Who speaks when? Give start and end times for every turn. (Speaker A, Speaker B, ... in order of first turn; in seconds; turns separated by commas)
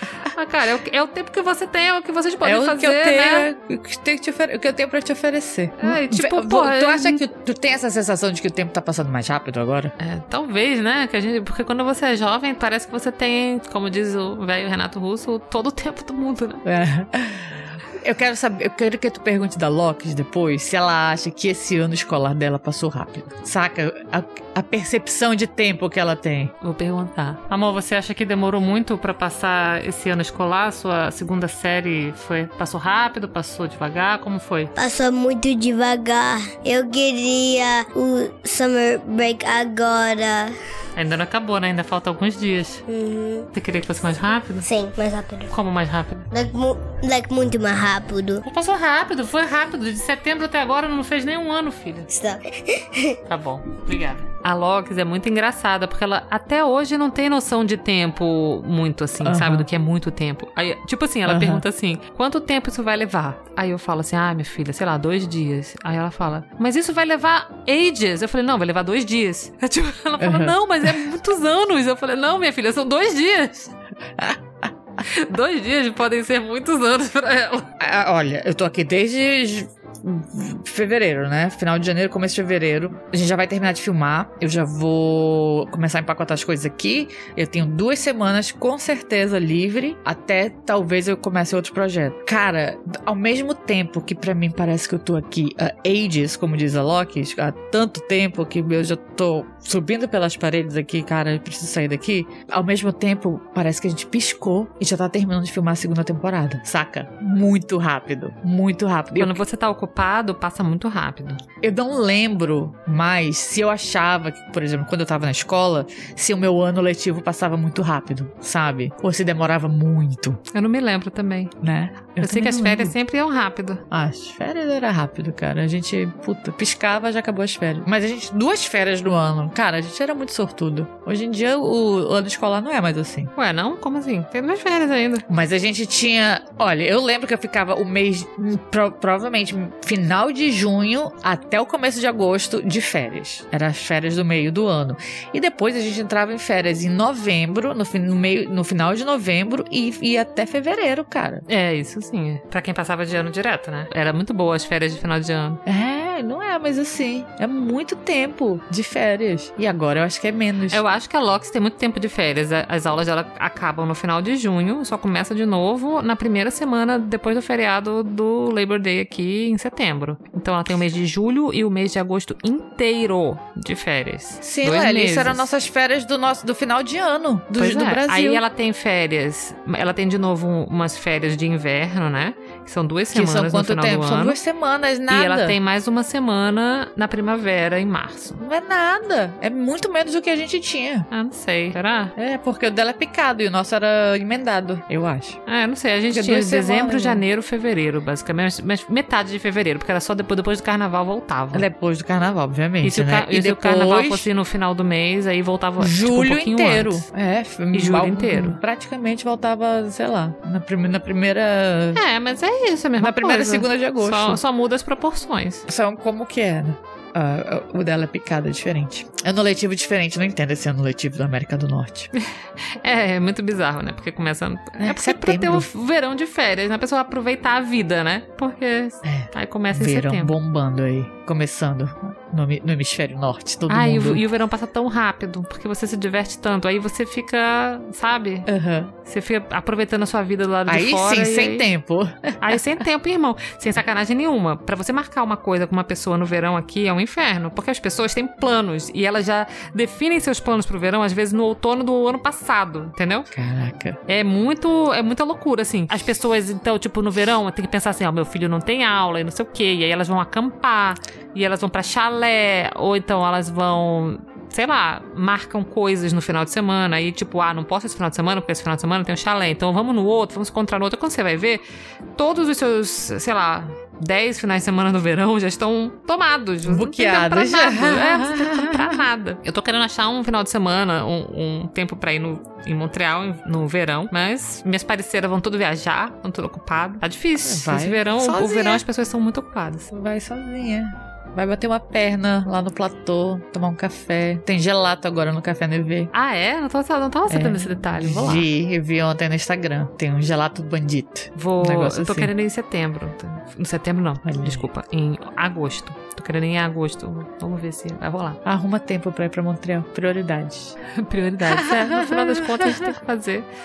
Speaker A: 0.2-3.5, Speaker B: 2.4-9.9, Speaker A: 5.8-7.2, Speaker A: 10.0-16.6, Speaker B: 16.6-26.5, Speaker A: 26.6-34.7, Speaker C: 34.8-40.5, Speaker A: 41.0-42.8, Speaker C: 42.9-43.5, Speaker A: 43.5-44.7, Speaker C: 44.6-45.5, Speaker A: 45.5-46.3, Speaker C: 46.3-48.4, Speaker A: 48.4-52.1, Speaker C: 52.1-53.2, Speaker A: 53.2-73.7, Speaker B: 59.2-59.7, Speaker B: 61.2-61.6, Speaker B: 70.2-70.6, Speaker A: 75.0-77.7, Speaker B: 77.8-109.4, Speaker A: 109.1-111.4, Speaker B: 111.6-120.4, Speaker A: 120.5-121.5, Speaker B: 121.6-122.9, Speaker A: 122.2-123.8, Speaker B: 123.9-133.3, Speaker A: 133.3-135.2, Speaker B: 135.3-151.4, Speaker A: 151.5-155.6, Speaker B: 155.7-160.8, Speaker A: 160.7-175.5, Speaker B: 174.4-178.4, Speaker A: 177.6-184.4, Speaker B: 183.1-185.6, Speaker A: 185.1-188.4, Speaker B: 188.4-191.1, Speaker A: 191.1-192.1, Speaker B: 192.2-195.4, Speaker A: 195.5-201.7, Speaker B: 196.1-197.2, Speaker B: 201.5-204.3, Speaker A: 202.8-207.1, Speaker B: 205.8-212.0, Speaker A: 207.7-208.6, Speaker A: 211.9-215.6, Speaker B: 213.0-214.4, Speaker B: 215.7-222.1, Speaker A: 222.8-230.3, Speaker B: 224.8-225.7, Speaker B: 229.0-234.2, Speaker A: 233.7-238.5, Speaker B: 238.4-238.9, Speaker A: 239.0-241.7, Speaker B: 240.7-242.6, Speaker A: 242.4-253.3, Speaker B: 253.3-254.0, Speaker A: 254.1-271.6, Speaker A: 272.1-289.9, Speaker B: 276.6-279.0, Speaker B: 287.4-288.8, Speaker B: 289.9-296.1, Speaker A: 296.1-298.4, Speaker B: 297.3-302.3, Speaker A: 301.3-308.4, Speaker B: 304.2-304.6, Speaker B: 308.4-310.8, Speaker A: 310.9-313.5, Speaker B: 311.4-312.9